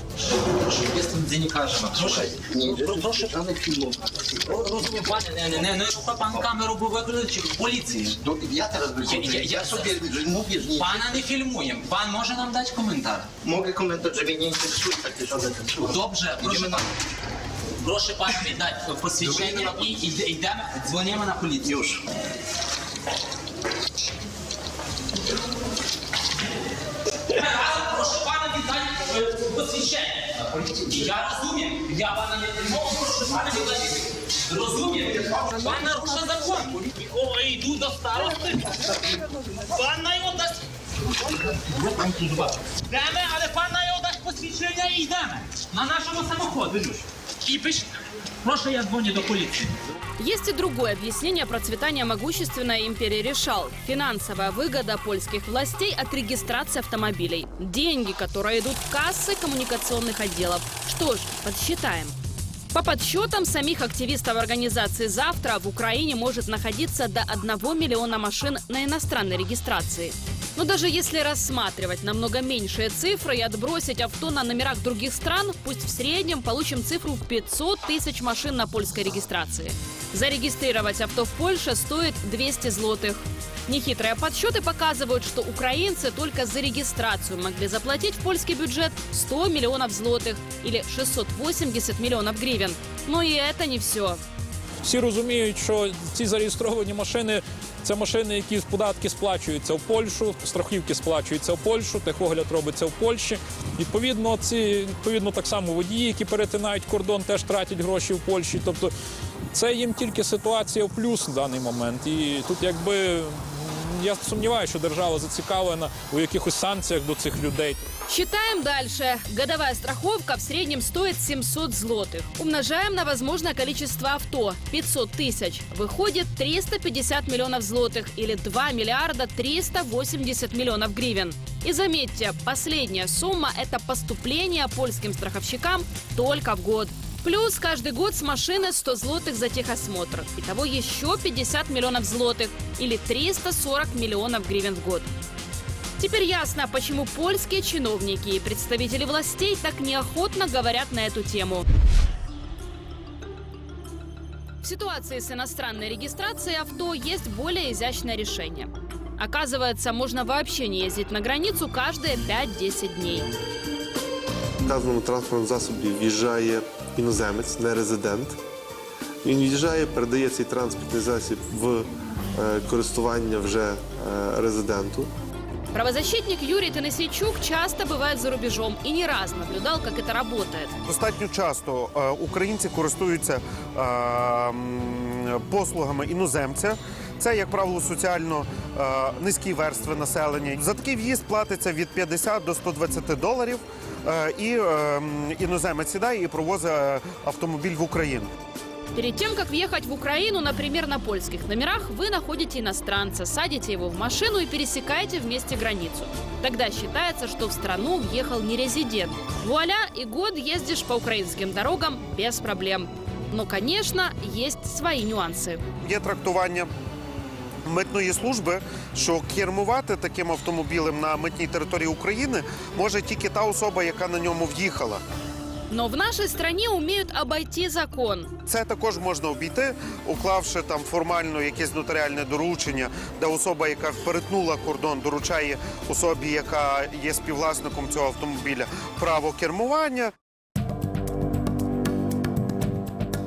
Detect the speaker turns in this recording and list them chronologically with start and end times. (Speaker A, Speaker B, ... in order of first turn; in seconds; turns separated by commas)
Speaker A: 0.2-3.4, Speaker B: 1.9-4.6, Speaker A: 4.5-8.2, Speaker B: 8.1-11.2, Speaker A: 9.0-10.0, Speaker A: 10.7-13.3, Speaker B: 13.4-16.8, Speaker A: 15.8-16.8, Speaker A: 17.8-21.9, Speaker B: 19.2-20.0, Speaker B: 21.6-22.0, Speaker A: 27.3-39.0, Speaker A: 39.7-40.6, Speaker A: 41.1-47.9, Speaker A: 48.4-49.8, Speaker C: 50.2-62.1, Speaker C: 62.7-94.2, Speaker D: 94.8-108.9, Speaker D: 109.5-117.9, Speaker C: 118.1-145.1, Speaker C: 146.0-151.7, Speaker C: 154.6-163.3, Speaker E: 164.6-168.4, Speaker E: 169.2-175.1, Speaker C: 175.7-180.7, Speaker F: 180.9-198.3, Speaker C: 198.9-215.6, Speaker F: 215.8-216.7, Speaker F: 217.7-225.0, Speaker C: 225.7-228.3, Speaker F: 228.5-240.1